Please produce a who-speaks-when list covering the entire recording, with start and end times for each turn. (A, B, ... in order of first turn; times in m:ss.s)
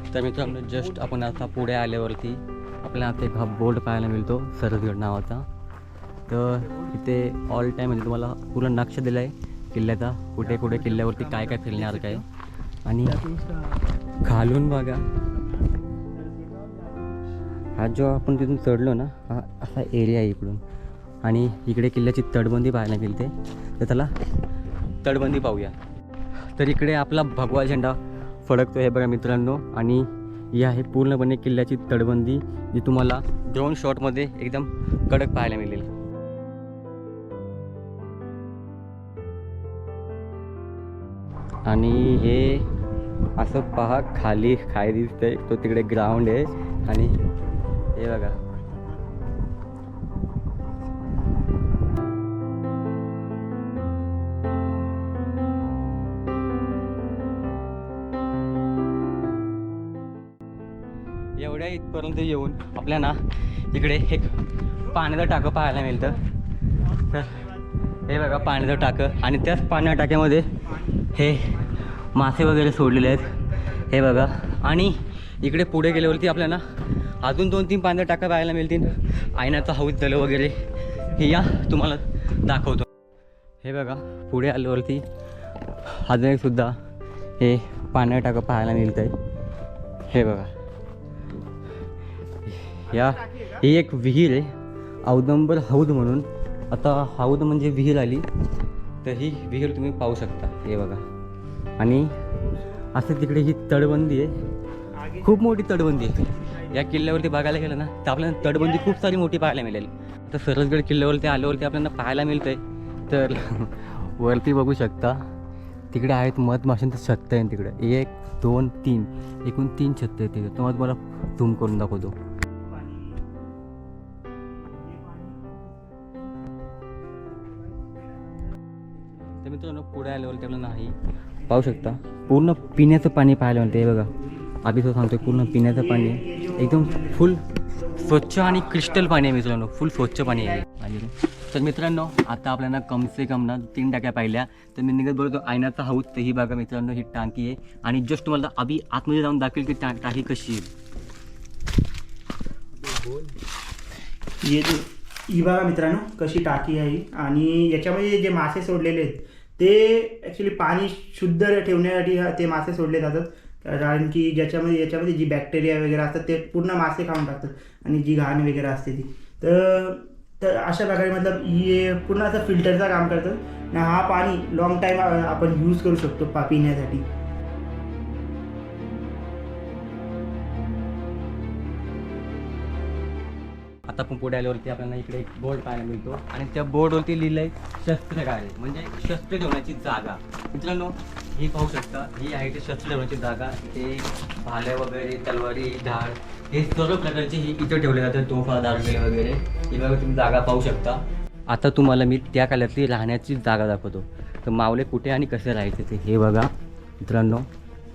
0:00.1-0:05.5 A
0:06.3-0:12.2 A
0:10.6-0:12.2 B
0:12.8-0:13.2 A
0:13.1-0:13.8 B
0:14.2-0:15.0 A
0:15.5-0:17.2 B
0:17.8-0:20.6 A
0:21.2-0:24.1 A
0:25.0-0:25.8 A
0:26.6-0:35.9 A
0:41.6-0:42.7 A
0:43.4-0:47.2 A
0:47.9-0:48.4 A
0:48.5-0:49.2 B
1:01.4-1:06.2 A
1:07.0-1:07.5 A
1:08.1-1:16.6 A
1:17.2-1:22.9 A
1:23.6-1:25.0 A
1:25.9-1:26.8 A
1:27.4-1:29.2 A
1:30.1-1:30.5 A
1:32.5-1:34.5 A
1:35.0-1:38.2 A
1:39.0-1:41.0 A
1:41.8-1:42.2 A
1:42.9-1:44.3 A
1:45.0-1:46.8 B
1:45.2-1:55.2 A
1:48.4-1:49.0 B
1:55.9-2:02.2 A
2:02.7-2:03.2 B
2:04.7-2:06.0 B
2:09.3-2:11.0 A
2:11.5-2:30.7 A
2:15.2-2:17.2 B
2:18.0-2:19.0 B
2:34.4-2:57.1 B
3:03.9-3:27.5 A